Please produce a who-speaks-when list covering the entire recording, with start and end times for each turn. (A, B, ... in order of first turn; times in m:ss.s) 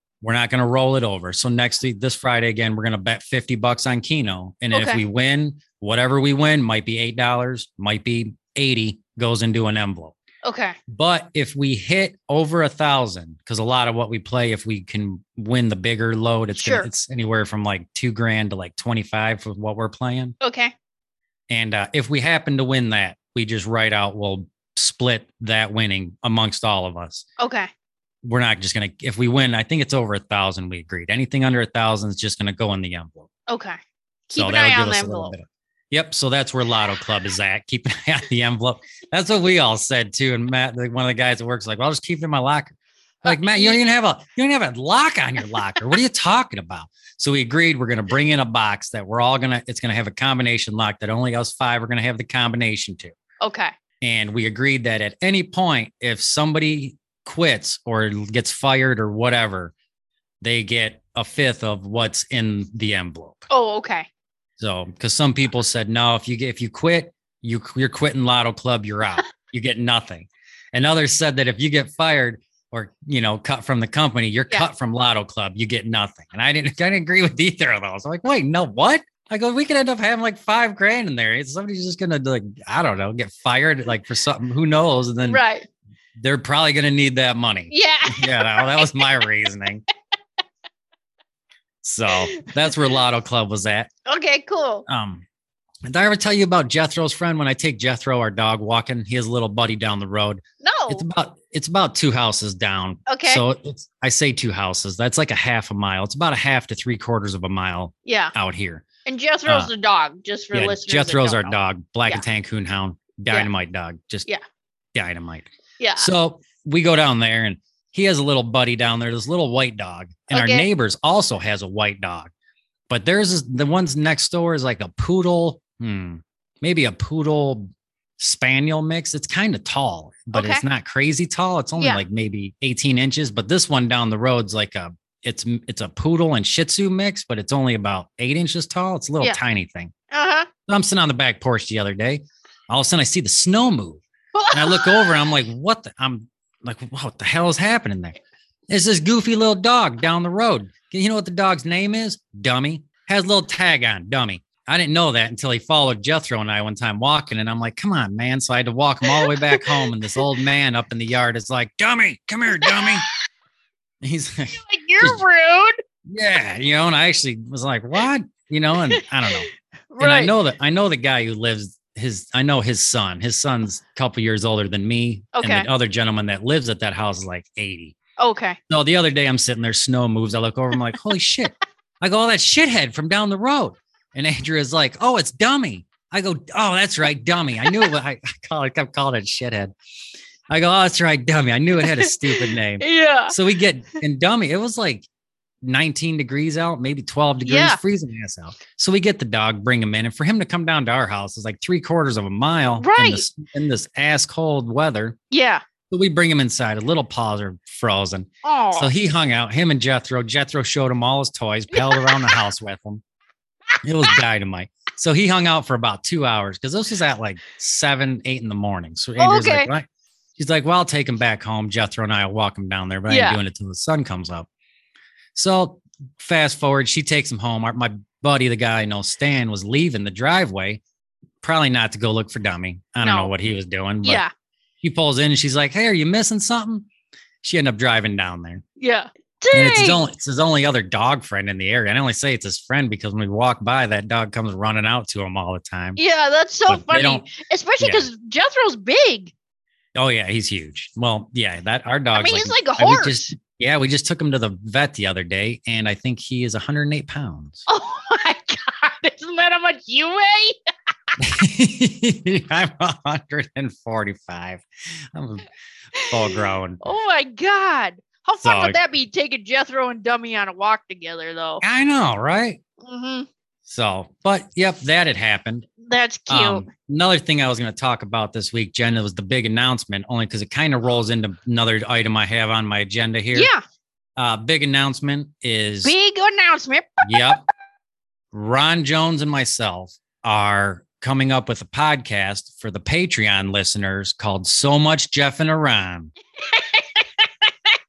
0:00.2-0:10.2 A
0:04.7-0:05.0 B
0:10.4-0:10.8 B
0:10.9-0:20.4 A
0:16.6-0:16.9 B
0:20.4-0:20.7 B
0:21.5-0:27.3 A
0:27.4-0:27.7 B
0:28.2-0:33.3 A
0:33.5-0:35.3 B
0:34.4-0:53.2 A
0:43.2-0:43.8 B
0:53.4-0:53.7 B
0:54.0-0:59.7 A
1:00.4-1:03.5 A
1:03.5-1:04.1 B
1:04.6-1:25.4 A
1:25.2-1:25.7 B
1:26.2-1:29.8 A
1:27.7-1:29.2 B
1:31.8-1:33.9 A
1:32.3-1:32.6 B
1:34.1-1:34.9 B
1:34.9-1:35.2 A
1:35.8-1:48.9 A
1:40.6-1:41.0 B
1:43.1-1:43.4 B
1:48.0-1:48.3 B
1:49.0-1:51.6 B
1:49.4-1:49.7 A
1:50.5-1:54.3 A
1:54.9-2:02.3 A
1:55.8-1:56.1 B
2:00.3-2:00.6 B
2:02.9-2:19.9 A
2:10.3-2:10.6 B
2:11.8-2:12.0 B
2:20.1-2:20.5 B
2:20.6-2:43.1 A
2:24.3-2:25.2 B
2:39.0-2:39.9 B
2:42.6-2:42.9 B
2:44.0-2:45.2 A
2:44.5-2:45.8 B
2:46.1-2:58.0 A
2:48.9-2:49.3 B
2:49.9-2:50.3 B
2:55.3-2:55.7 B
2:58.2-2:58.6 B
2:58.7-3:09.7 A
3:07.6-3:07.9 B
3:10.5-3:15.1 A
3:11.8-3:13.4 B
3:15.6-3:25.2 A
3:17.4-3:17.8 B
3:22.8-3:23.3 B
3:25.3-3:25.6 B
3:25.9-3:33.0 A
3:28.4-3:28.9 B
3:31.7-3:32.4 B
3:33.8-3:44.5 A
3:39.2-3:39.7 B
3:43.1-3:43.4 B
3:45.4-3:50.8 A
3:51.4-3:54.2 A
3:53.0-3:53.3 B
3:54.0-3:54.3 B
3:54.8-3:56.9 A
3:57.4-3:58.6 A
3:58.8-4:00.0 B
3:59.5-4:06.0 A
4:06.0-4:09.3 B
4:06.7-4:07.3 A
4:07.8-4:08.1 A
4:09.9-4:17.6 A
4:12.1-4:13.4 B
4:17.7-4:20.6 B
4:21.2-4:26.8 A
4:26.0-4:31.6 B
4:28.4-4:28.8 A
4:31.6-4:32.6 A
4:32.8-4:33.3 B
4:33.6-4:35.7 A
4:35.8-4:36.7 B
4:36.3-4:43.5 A
4:43.3-4:43.6 B
4:44.2-4:45.9 A
4:45.8-4:47.3 B
4:47.0-4:47.4 A
4:48.3-4:56.1 A
4:56.4-4:57.5 B